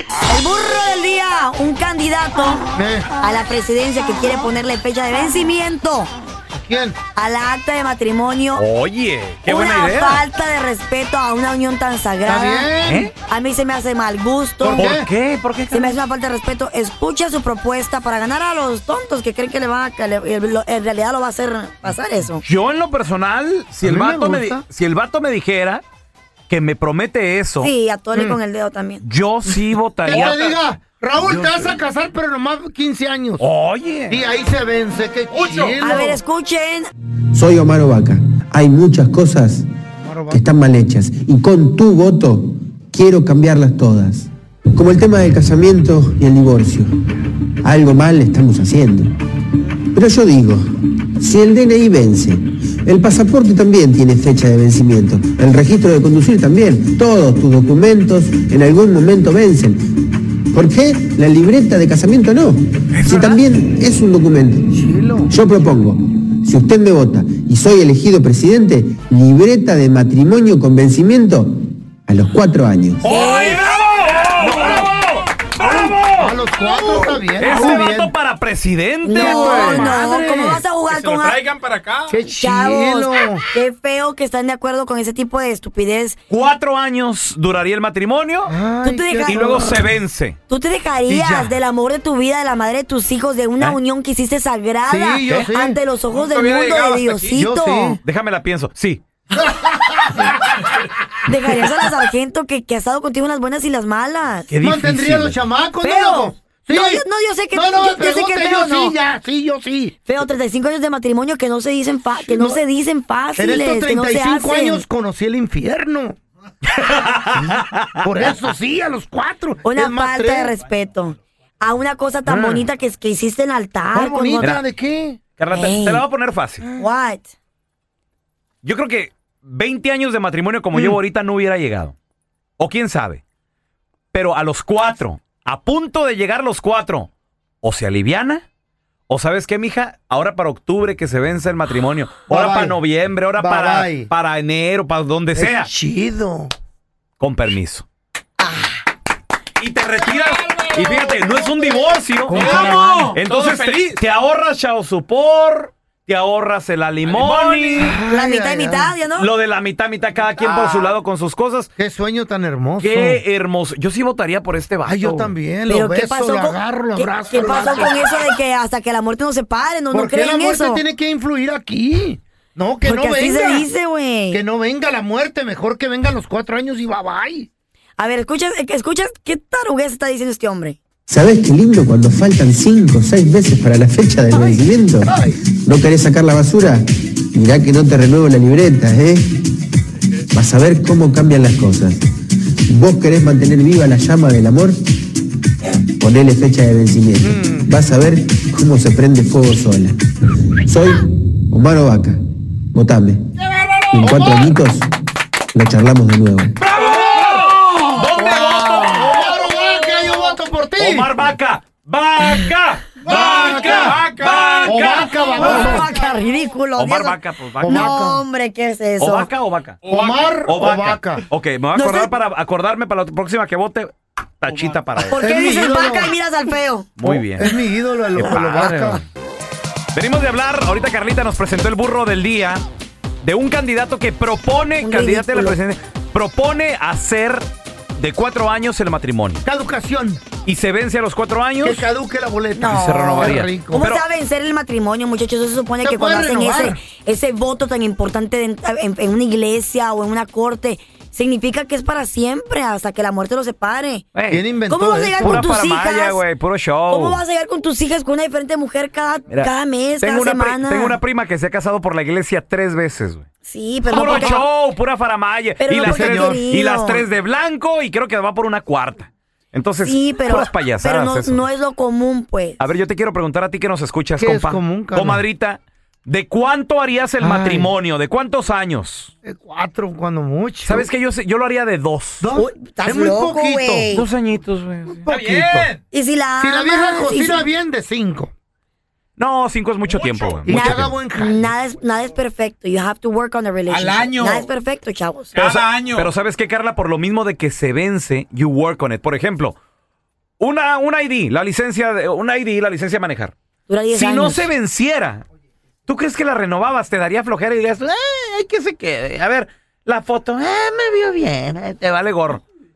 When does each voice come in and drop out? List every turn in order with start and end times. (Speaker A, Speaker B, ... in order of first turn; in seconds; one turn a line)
Speaker A: 0.3-2.6
Speaker B: 2.7-3.1
Speaker A: 3.2-6.1
Speaker B: 6.5-7.0
Speaker A: 7.2-8.6
Speaker C: 8.6-10.2
Speaker A: 9.5-12.7
Speaker B: 12.2-13.1
Speaker C: 12.8-13.1
Speaker A: 13.3-14.9
Speaker B: 14.6-15.1
Speaker C: 14.8-16.0
Speaker A: 15.7-22.4
Speaker C: 22.4-25.8
Speaker B: 23.8-24.6
Speaker C: 26.5-27.7
Speaker A: 27.6-29.0
Speaker C: 29.0-30.5
Speaker B: 30.1-33.5
Speaker D: 30.1-30.6
Speaker C: 31.2-31.8
Speaker C: 33.4-34.2
Speaker B: 34.1-36.2
Speaker D: 35.3-35.8
Speaker A: 35.8-36.9
Speaker E: 37.3-39.7
Speaker B: 40.0-40.5
Speaker E: 40.3-46.9
Speaker E: 47.6-49.1
Speaker E: 49.9-64.7
Speaker C: 62.9-63.4
Speaker B: 64.7-65.3
Speaker E: 65.3-73.1
Speaker C: 73.0-79.9
Speaker A: 73.0-73.7
Speaker D: 74.2-74.9
Speaker B: 74.4-74.9
Speaker B: 75.6-78.1
Speaker A: 77.4-77.8
Speaker A: 79.0-81.4
Speaker B: 79.1-80.6
Speaker D: 80.9-82.2
Speaker B: 82.1-83.4
Speaker A: 82.3-86.2
Speaker C: 86.3-88.5
Speaker B: 88.5-89.9
Speaker A: 88.8-89.6
Speaker C: 89.3-90.4
Speaker A: 90.5-98.0
Speaker B: 91.1-91.6
Speaker B: 94.9-95.8
Speaker D: 96.1-97.4
Speaker B: 97.3-98.0
Speaker C: 98.0-99.0
Speaker B: 99.3-100.3
Speaker A: 101.2-104.5
Speaker C: 104.5-105.4
Speaker B: 104.6-109.9
Speaker A: 105.8-109.0
Speaker A: 110.0-114.8
Speaker B: 112.2-112.6
Speaker B: 113.4-116.2
Speaker C: 116.7-118.0
Speaker B: 118.0-120.5
Speaker A: 119.6-124.6
Speaker B: 122.3-122.7
Speaker B: 123.9-125.2
Speaker C: 125.4-126.6
Speaker A: 125.5-126.0
Speaker A: 126.8-127.2
Speaker C: 128.6-132.0
Speaker C: 132.6-133.2
Speaker C: 134.1-137.1
Speaker C: 137.6-138.4
Speaker C: 139.1-145.7
Speaker B: 142.3-142.8
Speaker B: 143.4-144.1
Speaker B: 145.4-146.5
Speaker C: 147.2-147.9
Speaker A: 148.4-148.7
Speaker C: 149.6-157.9
Speaker D: 150.5-150.8
Speaker B: 152.3-153.2
Speaker D: 152.3-154.0
Speaker D: 157.0-158.0
Speaker B: 157.8-158.9
Speaker A: 158.0-159.3
Speaker C: 159.2-161.7
Speaker B: 160.4-160.9
Speaker B: 161.8-163.2
Speaker C: 162.8-165.3
Speaker B: 164.8-168.1
Speaker A: 165.7-170.8
Speaker B: 169.9-173.7
Speaker A: 172.8-174.4
Speaker B: 174.3-177.5
Speaker A: 178.0-180.8
Speaker E: 181.1-189.4
Speaker B: 185.1-185.4
Speaker E: 190.3-192.1
Speaker E: 192.7-194.8
Speaker E: 196.0-200.0
Speaker B: 197.2-197.7
Speaker E: 200.6-202.2
Speaker E: 202.7-203.3
Speaker E: 203.9-204.9
Speaker B: 204.0-204.6
Speaker E: 205.5-206.6
Speaker C: 206.6-209.5
Speaker B: 206.8-207.6
Speaker B: 208.2-211.2
Speaker A: 208.2-209.1
Speaker C: 210.8-215.9
Speaker B: 213.0-214.1
Speaker D: 213.0-215.5
Speaker B: 214.6-215.9
Speaker A: 215.3-219.3
Speaker C: 216.8-217.9
Speaker B: 217.6-218.2
Speaker C: 219.0-219.8
Speaker D: 219.8-220.4
Speaker B: 219.9-221.2
Speaker C: 220.5-225.2
Speaker A: 221.8-222.1
Speaker D: 224.5-224.8
Speaker A: 225.0-226.9
Speaker B: 225.2-226.1
Speaker C: 227.0-227.6
Speaker B: 227.0-229.0
Speaker C: 228.2-229.1
Speaker C: 229.9-232.7
Speaker C: 233.2-239.4
Speaker A: 234.8-235.6
Speaker B: 239.4-240.2
Speaker C: 240.4-241.9
Speaker B: 241.6-243.8
Speaker A: 242.6-254.1
Speaker C: 242.7-244.0
Speaker B: 245.8-246.8
Speaker C: 254.1-254.4
Speaker B: 254.3-255.4
Speaker A: 254.7-256.2
Speaker C: 255.2-257.2
Speaker A: 256.9-261.0
Speaker C: 259.3-263.3
Speaker A: 263.4-264.5
Speaker C: 263.9-271.5
Speaker B: 264.1-264.4
Speaker A: 265.6-267.1
Speaker B: 265.8-266.4
Speaker A: 269.9-272.6
Speaker C: 272.6-279.1
Speaker B: 274.2-275.2
Speaker B: 277.2-277.7
Speaker B: 279.2-280.9
Speaker C: 280.6-282.3
Speaker B: 282.2-283.9
Speaker A: 282.4-284.1
Speaker C: 283.9-285.1
Speaker B: 285.0-285.7
Speaker D: 285.1-285.8
Speaker A: 285.9-287.4
Speaker B: 286.4-288.3
Speaker C: 289.2-290.9
Speaker D: 289.9-290.5
Speaker B: 290.4-291.5
Speaker A: 290.4-295.3
Speaker D: 293.7-294.5
Speaker D: 295.3-296.1
Speaker C: 295.4-299.6
Speaker C: 300.4-303.4
Speaker A: 303.7-304.5
Speaker C: 303.9-305.2
Speaker C: 305.9-312.4